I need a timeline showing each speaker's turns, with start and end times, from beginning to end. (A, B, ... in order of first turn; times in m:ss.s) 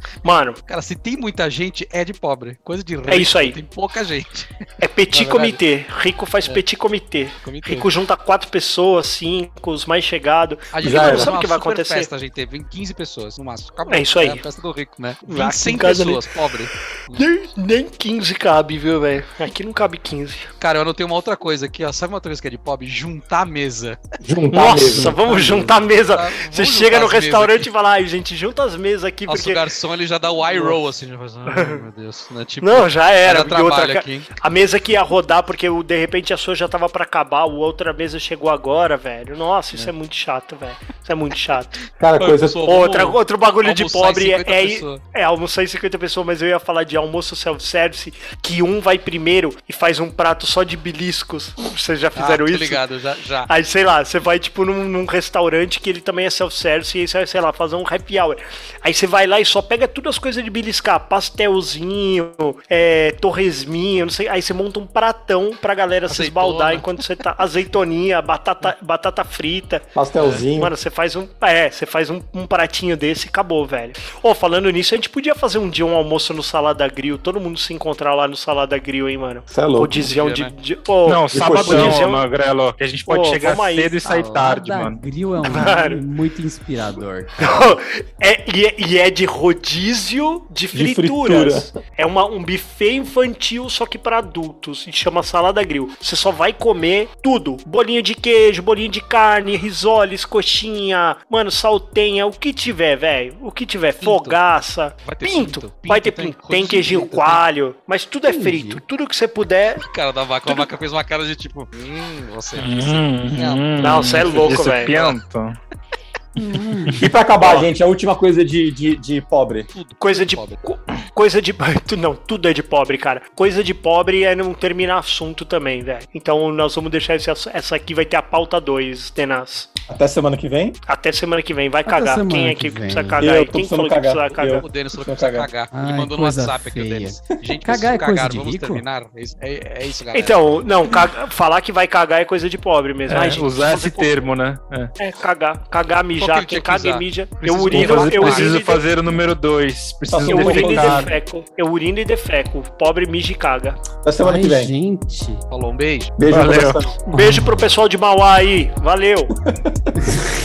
0:00.2-0:00.6 A
0:00.7-0:04.5 B
0:03.1-0:03.6 A
0:04.8-0:12.1 A
0:05.1-0:05.6 B
0:07.4-0:07.9 B
0:10.7-0:17.2 B
0:10.8-0:11.3 C
0:13.9-0:14.4 A
0:15.2-0:16.2 A
0:17.1-0:20.5 A
0:20.6-0:24.0 B
0:24.2-0:25.6 C
0:24.5-0:29.6 A
0:25.3-0:25.6 D
0:26.1-0:27.7 B
0:29.3-0:34.4 B
0:30.4-0:30.8 A
0:31.5-0:31.8 A
0:32.6-0:41.8 A
0:42.0-0:42.6 C
0:42.2-0:45.0 B
0:42.6-0:52.8 A
0:52.2-0:53.5 B
0:53.5-1:09.9 A
1:06.1-1:07.0 B
1:09.9-1:10.7 C
1:10.5-1:22.2 A
1:19.5-1:20.0 C
1:20.0-1:20.5 B
1:21.0-1:25.0 E
1:21.3-1:22.0 C
1:23.1-1:24.0 A
1:24.0-1:27.7 D
1:25.4-1:26.0 A
1:27.4-1:49.8 A
1:30.7-1:31.7 C
1:44.0-1:44.4 B
1:45.0-1:47.4 B
1:48.3-1:48.8 D
1:49.8-1:55.2 B
1:52.6-1:55.6 E
1:53.8-1:55.1 A
1:56.3-1:57.0 D
1:57.0-1:59.7 C
1:57.4-1:57.7 A
1:59.7-2:00.6 B
2:00.0-2:09.7 A
2:09.9-2:10.8 C
2:10.8-2:14.6 A
2:11.8-2:13.2 D
2:13.2-2:15.5 C
2:14.4-2:20.4 B
2:15.7-2:18.8 D
2:20.1-2:24.2 A
2:23.1-2:24.9 E
2:25.0-2:28.9 A
2:26.2-2:28.6 B
2:27.7-2:31.2 E
2:30.0-2:31.1 C
2:30.2-2:33.8 A
2:34.0-2:34.7 C
2:34.2-2:35.4 D
2:35.5-2:36.2 B
2:36.2-2:37.1 C
2:36.3-2:37.4 E
2:37.1-2:39.3 A
2:39.4-2:39.9 C
2:40.1-2:40.3 D